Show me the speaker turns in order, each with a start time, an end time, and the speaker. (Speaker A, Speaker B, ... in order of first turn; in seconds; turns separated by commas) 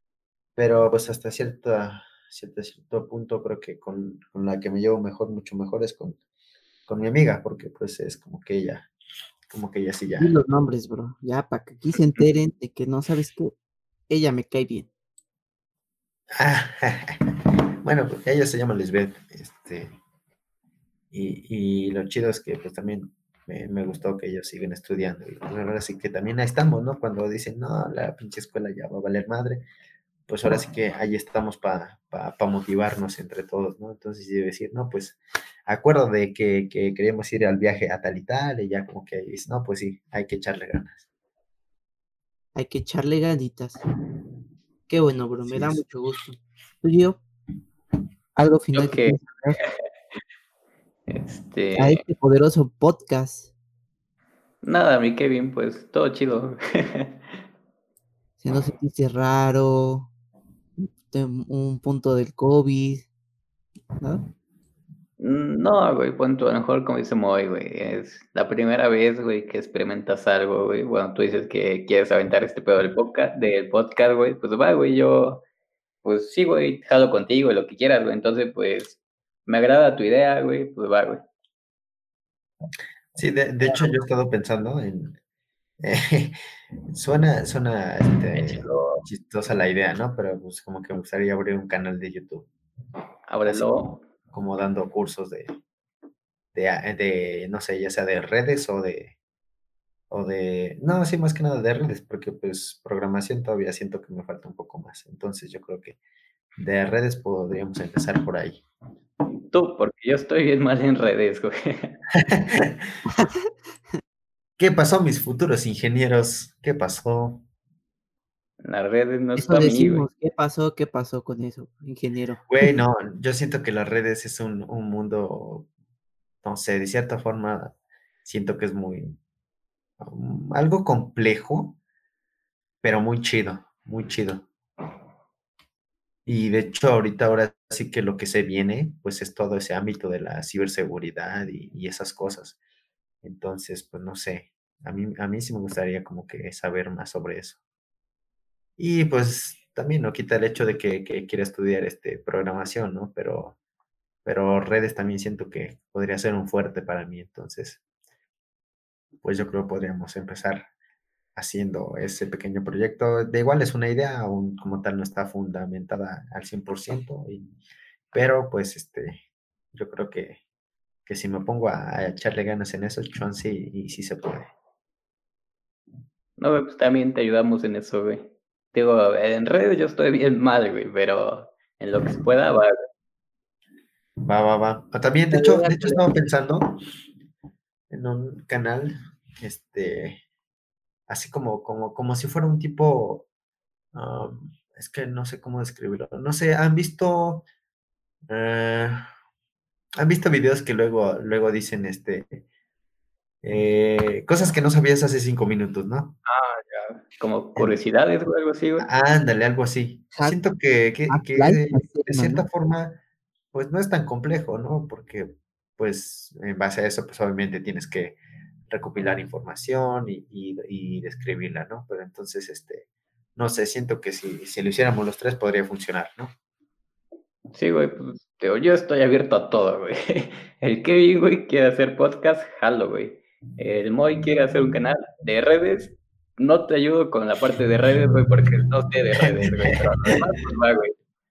Speaker A: 0.6-6.2, Speaker A: 6.9-8.9, Speaker A: 9.5-10.3, Speaker B: 10.2-13.5, Speaker B: 14.1-14.9, Speaker A: 16.4-17.2, Speaker A: 17.8-19.9, Speaker A: 21.1-29.6, Speaker A: 30.3-41.0, Speaker B: 42.5-43.8, Speaker B: 44.9-47.2, Speaker A: 45.4-45.8, Speaker B: 48.4-49.6, Speaker C: 48.7-49.7, Speaker C: 51.1-52.0, Speaker B: 51.8-53.5, Speaker C: 54.6-57.3, Speaker B: 58.4-60.1, Speaker B: 60.8-63.1, Speaker C: 65.2-75.4, Speaker C: 76.0-81.2, Speaker A: 83.1-85.2, Speaker A: 85.8-86.4, Speaker A: 86.9-92.5, Speaker C: 88.3-89.0, Speaker C: 93.3-94.0, Speaker A: 94.3-95.5, Speaker A: 96.5-99.1, Speaker A: 100.1-106.0, Speaker A: 106.6-108.6, Speaker C: 109.5-112.0, Speaker A: 112.2-112.9, Speaker B: 113.1-113.3, Speaker A: 114.6-117.4, Speaker C: 118.6-120.0, Speaker B: 119.4-122.7, Speaker A: 122.5-125.7, Speaker A: 126.4-129.2, Speaker A: 130.0-131.8, Speaker A: 132.8-134.5, Speaker A: 136.2-142.6, Speaker A: 143.2-147.6, Speaker A: 148.8-153.6, Speaker A: 154.2-157.8, Speaker A: 159.2-160.7, Speaker A: 161.3-167.5, Speaker A: 168.1-169.2, Speaker A: 169.7-170.4, Speaker A: 171.1-174.5, Speaker C: 176.4-182.7, Speaker A: 184.2-186.8, Speaker B: 185.3-186.1, Speaker A: 187.9-190.2, Speaker A: 191.1-193.3, Speaker A: 193.9-197.5, Speaker A: 198.3-199.1, Speaker A: 200.0-202.4, Speaker A: 203.4-206.2, Speaker C: 206.2-208.9, Speaker A: 208.8-213.0, Speaker B: 211.1-212.4, Speaker A: 213.5-218.2, Speaker A: 218.7-226.3, Speaker C: 227.5-240.9, Speaker A: 239.2-240.2